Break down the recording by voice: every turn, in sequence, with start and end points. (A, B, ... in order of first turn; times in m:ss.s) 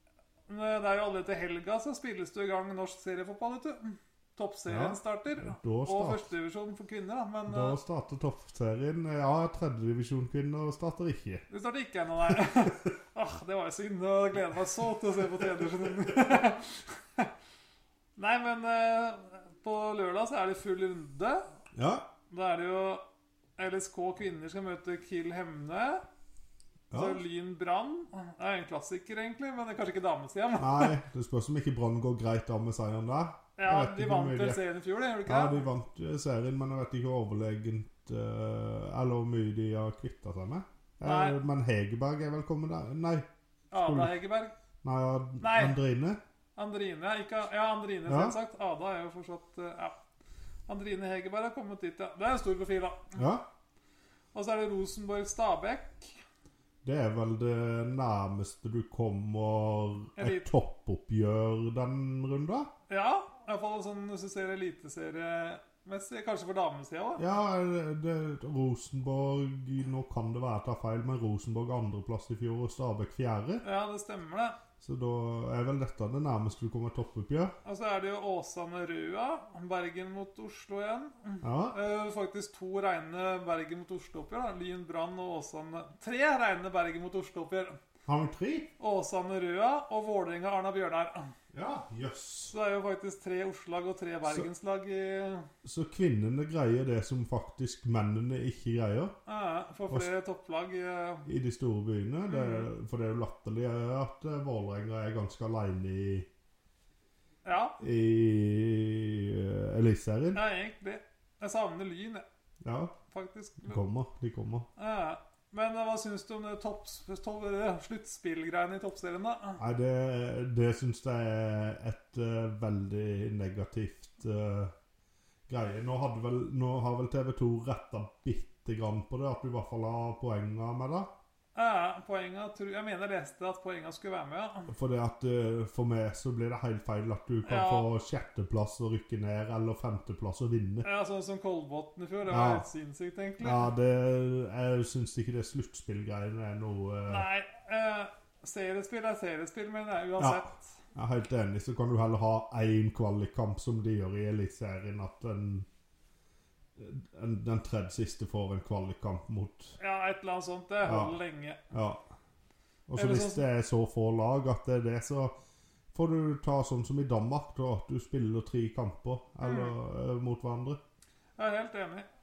0:00.5-0:07.8 A
0:04.7-0:06.3 B
0:07.5-0:11.5 B
0:11.5-0:17.3 A
0:12.3-0:12.7 B
0:16.1-0:16.4 B
0:18.2-0:21.4 A
0:21.8-0:22.1 B
0:22.3-0:23.0 A
0:23.6-0:26.0 A
0:26.9-0:27.2 B
0:26.9-0:31.0 A
0:30.6-0:34.6 B
0:33.6-0:35.6 A
0:35.2-0:43.3 B
0:41.0-0:41.4 A
0:43.7-0:44.5 A
0:43.8-0:44.2 B
0:44.8-0:46.2 B
0:45.4-0:45.8 A
0:46.6-0:50.0 A
0:48.1-0:48.4 B
0:50.7-0:53.2 A
0:53.2-0:53.4 B
0:54.3-0:56.1 A
0:56.8-1:02.7 B
1:00.2-1:00.5 A
1:02.9-1:07.2 A
1:07.2-1:13.6 B
1:13.6-1:14.6 A
1:14.8-1:17.5 B
1:17.6-1:27.8 A
1:21.4-1:21.8 B
1:28.1-1:28.7 B
1:28.8-1:31.3 A
1:31.5-1:32.6 B
1:32.5-1:35.5 A
1:35.6-1:39.1 B
1:39.3-1:41.3 A
1:41.2-1:46.3 B
1:42.3-1:42.7 A
1:47.4-1:47.8 A
1:47.8-1:50.4 B
1:50.3-1:52.2 A
1:52.6-1:53.0 B
1:53.1-1:53.8 A
1:53.6-1:54.7 B
1:54.8-1:59.6 A
1:59.6-2:04.7 B
2:05.5-2:11.1 B
2:11.6-2:14.7 A
2:14.7-2:20.9 B
2:17.4-2:17.9 A
2:20.8-2:23.7 A
2:22.3-2:22.7 B
2:23.4-2:27.3 B
2:27.1-2:30.6 A
2:30.2-2:35.7 B
2:36.8-2:39.8 B
2:39.8-2:41.6 A
2:40.8-2:41.2 B
2:41.7-2:42.1 B
2:42.9-2:45.3 B
2:43.0-2:43.4 A
2:45.9-2:50.8 B
2:49.4-2:49.7 A
2:51.4-2:52.1 A